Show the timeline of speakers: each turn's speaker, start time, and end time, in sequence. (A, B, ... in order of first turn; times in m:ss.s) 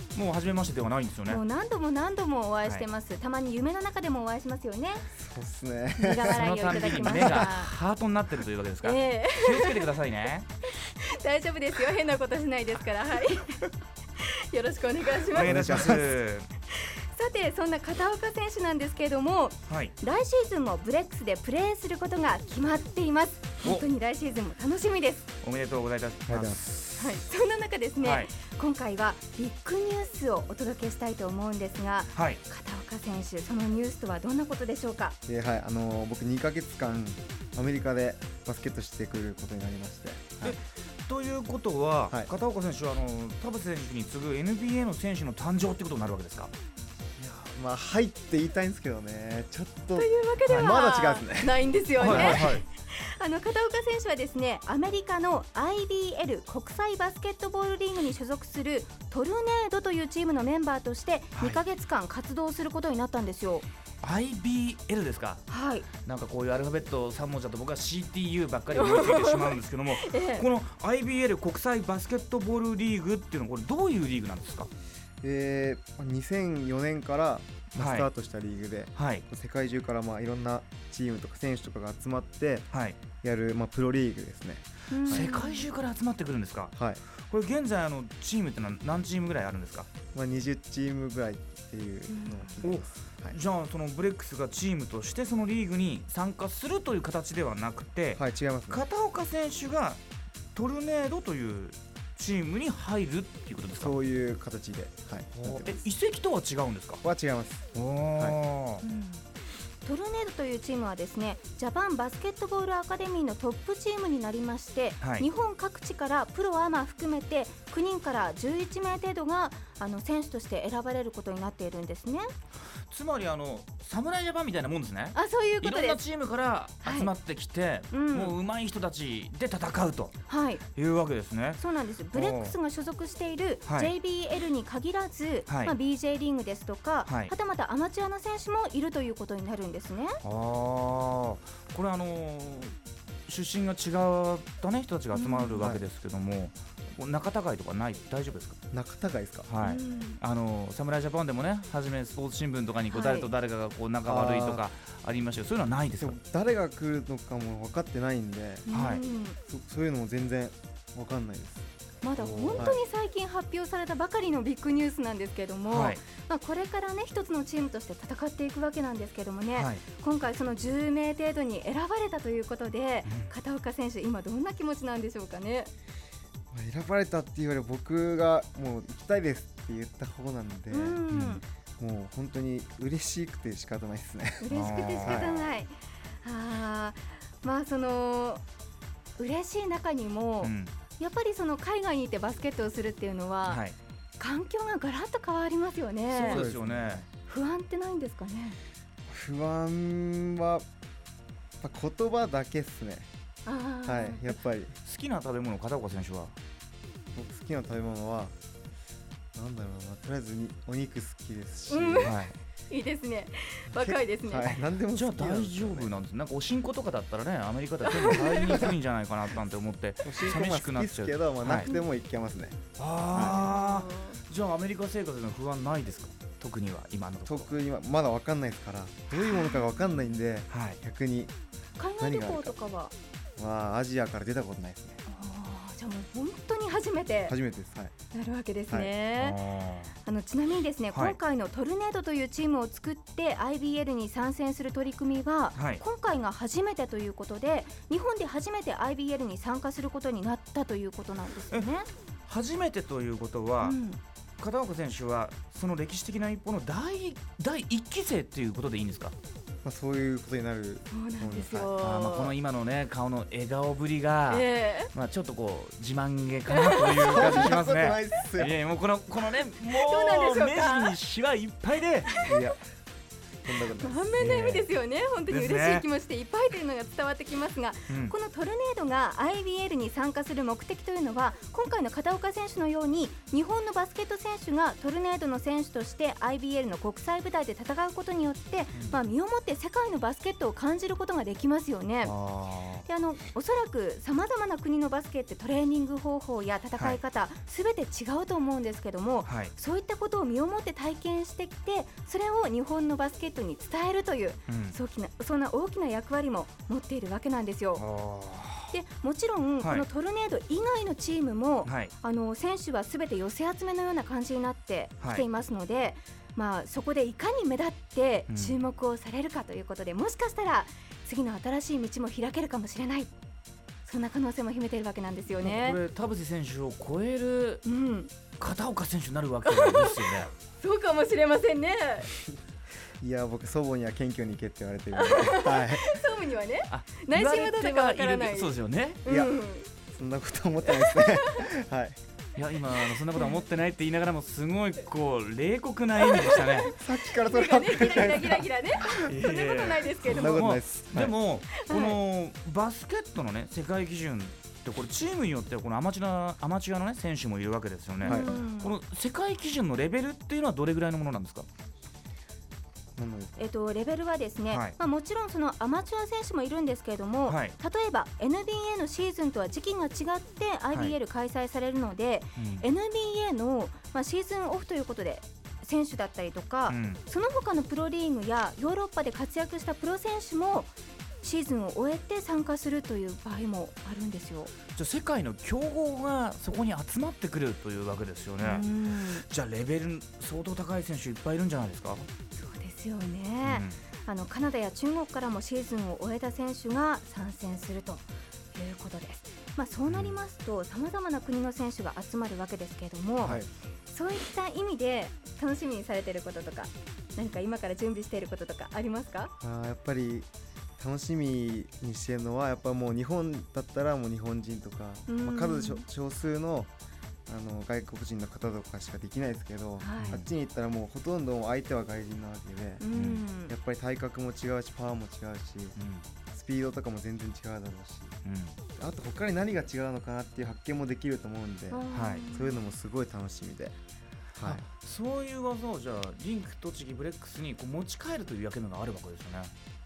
0:00.1-0:01.4 A
0:01.3-0:05.1 B
0:05.1-0:07.4 C
0:06.0-0:07.7 B
0:06.3-0:10.5 A
0:08.8-0:09.9 B
0:10.7-0:13.7 B
0:14.2-0:15.5 B
0:15.2-0:16.5 A
0:15.4-0:16.0 C
0:16.7-0:25.3 B
0:19.7-0:19.9 A
0:25.4-0:27.2 A
0:26.3-0:26.6 C
0:27.0-0:35.2 B
0:28.0-0:28.3 A
0:32.1-0:32.4 A
0:35.3-0:40.6 C
0:40.4-0:46.5 A
0:47.2-0:52.6 C
0:50.0-1:03.6 B
0:50.4-0:50.8 A
0:52.0-0:52.6 A
1:01.3-1:01.6 A
1:04.0-1:05.4 A
1:05.5-1:05.9 B
1:06.0-1:14.7 A
1:08.7-1:10.4 B
1:15.2-1:22.7 C
1:17.8-1:18.1 A
1:19.0-1:19.2 A
1:22.7-1:23.0 A
1:23.2-1:25.3 C
1:24.9-1:25.6 B
1:25.0-1:29.9 A
1:26.7-1:27.0 C
1:30.1-1:33.4 C
1:32.1-1:32.6 B
1:32.6-1:40.0 A
1:38.2-1:38.8 C
1:40.5-1:43.9 A
1:43.7-1:45.8 C
1:45.3-1:47.0 A
1:47.0-1:48.4 C
1:47.7-1:48.8 A
1:48.8-1:49.2 B
1:49.8-2:02.3 B
1:55.0-1:55.3 A
2:02.9-2:10.2 A
2:05.1-2:06.0 B
2:06.8-2:07.1 B
2:07.9-2:08.3 B
2:10.3-2:10.6 B
2:10.8-2:11.6 A
2:11.6-2:20.2 B
2:12.1-2:12.5 A
2:13.6-2:13.9 A
2:15.5-2:15.7 A
2:17.0-2:17.3 A
2:20.2-2:22.7 A
2:23.3-2:28.6 A
2:25.1-2:25.8 B
2:25.6-2:25.8 C
2:28.7-2:29.5 C
2:29.4-2:36.2 A
2:29.6-2:30.2 B
2:32.9-2:33.3 B
2:34.1-2:34.6 C
2:36.0-2:38.7 C
2:38.7-2:39.4 B
2:38.7-2:39.0 A
2:39.5-2:41.6 C
2:42.0-2:55.7 B
2:42.2-2:42.8 A
2:45.7-2:46.0 A
2:49.5-2:49.8 A
2:53.0-2:53.3 A
2:56.5-3:01.0 C
3:00.7-3:01.4 B
3:01.1-3:01.4 A
3:01.8-3:05.5 C
3:04.4-3:08.4 B
3:04.5-3:05.4 A
3:09.2-3:13.6 B
3:10.4-3:10.7 A
3:13.5-3:13.7 A
3:14.2-3:16.4 B
3:16.1-3:17.0 A
3:16.2-3:17.1 C
3:17.2-3:18.6 B
3:19.1-3:20.6 C
3:21.6-3:23.1 C
3:23.4-3:24.3 B
3:23.8-3:24.7 C
3:24.8-3:26.3 A
3:27.1-3:28.3 C
3:29.3-3:32.2 C
3:31.7-3:34.6 B
3:32.0-3:32.4 A
3:33.7-3:36.0 C
3:34.9-3:41.7 A
3:37.8-3:38.7 B
3:38.4-3:38.7 C
3:40.0-3:43.4 C
3:42.8-3:47.5 A
3:43.2-3:44.2 B
3:47.2-3:51.3 C
3:49.1-3:50.1 B
3:50.5-3:50.8 A
3:51.8-3:52.9 B
3:52.0-3:52.6 C
3:53.4-3:55.0 C
3:55.0-3:57.4 B
3:57.2-3:57.9 C
3:58.1-3:59.4 B
3:59.2-3:59.9 A
4:00.0-4:11.9 B
4:05.6-4:05.8 A
4:12.3-4:13.8 A
4:13.6-4:14.0 B
4:14.4-4:19.1 A
4:19.6-4:21.7 C
4:20.9-4:22.3 B
4:21.8-4:32.3 A
4:24.3-4:24.9 B
4:26.5-4:27.5 B
4:27.0-4:28.6 C
4:29.7-4:31.0 B
4:32.2-4:32.6 C
4:33.4-4:34.1 C
4:33.7-4:52.1 B
4:34.2-4:34.7 A
4:35.3-4:35.8 A
4:37.9-4:38.1 A
4:48.7-4:49.0 A
4:52.0-4:52.8 A
4:52.8-5:07.8 B
4:59.2-4:59.5 A
5:04.5-5:04.8 A
5:07.8-5:08.7 A
5:08.7-5:23.1 B
5:11.6-5:11.9 A
5:18.3-5:18.5 A
5:23.8-5:25.8 B
5:25.4-5:27.6 A
5:27.6-5:28.1 B
5:28.4-5:30.3 A
5:29.4-5:32.1 B
5:33.0-5:36.0 C
5:34.9-5:38.5 B
5:36.7-5:39.0 A
5:39.0-5:39.7 B
5:39.0-5:42.0 C
5:40.7-5:41.4 B
5:42.4-5:46.8 A
5:42.7-5:43.3 B
5:46.0-5:50.5 B
5:46.7-5:49.0 C
5:48.9-6:01.4 A
5:50.0-5:51.1 C
5:51.5-5:52.0 B
5:58.0-5:58.4 C
5:58.0-5:58.8 B
6:03.0-6:03.5 C
6:03.4-6:24.5 B
6:04.5-6:04.8 A
6:07.3-6:07.6 A
6:12.4-6:12.6 A
6:16.7-6:17.0 A
6:24.8-6:32.1 A
6:28.4-6:29.2 B
6:32.3-6:49.3 B
6:33.4-6:33.8 A
6:39.9-6:40.2 A
6:43.2-6:43.5 C
6:49.4-6:50.3 C
6:50.8-6:56.7 C
6:55.1-6:55.8 B
6:57.3-7:02.8 C
6:59.8-7:00.2 B
7:02.8-7:03.5 B
7:02.9-7:03.2 A
7:03.5-7:05.8 C
7:05.8-7:06.0 A
7:06.3-7:08.1 C
7:08.2-7:08.6 A
7:08.8-7:13.7 C
7:11.7-7:12.6 B
7:11.9-7:12.3 A
7:14.4-7:14.6 C
7:14.4-7:19.5 A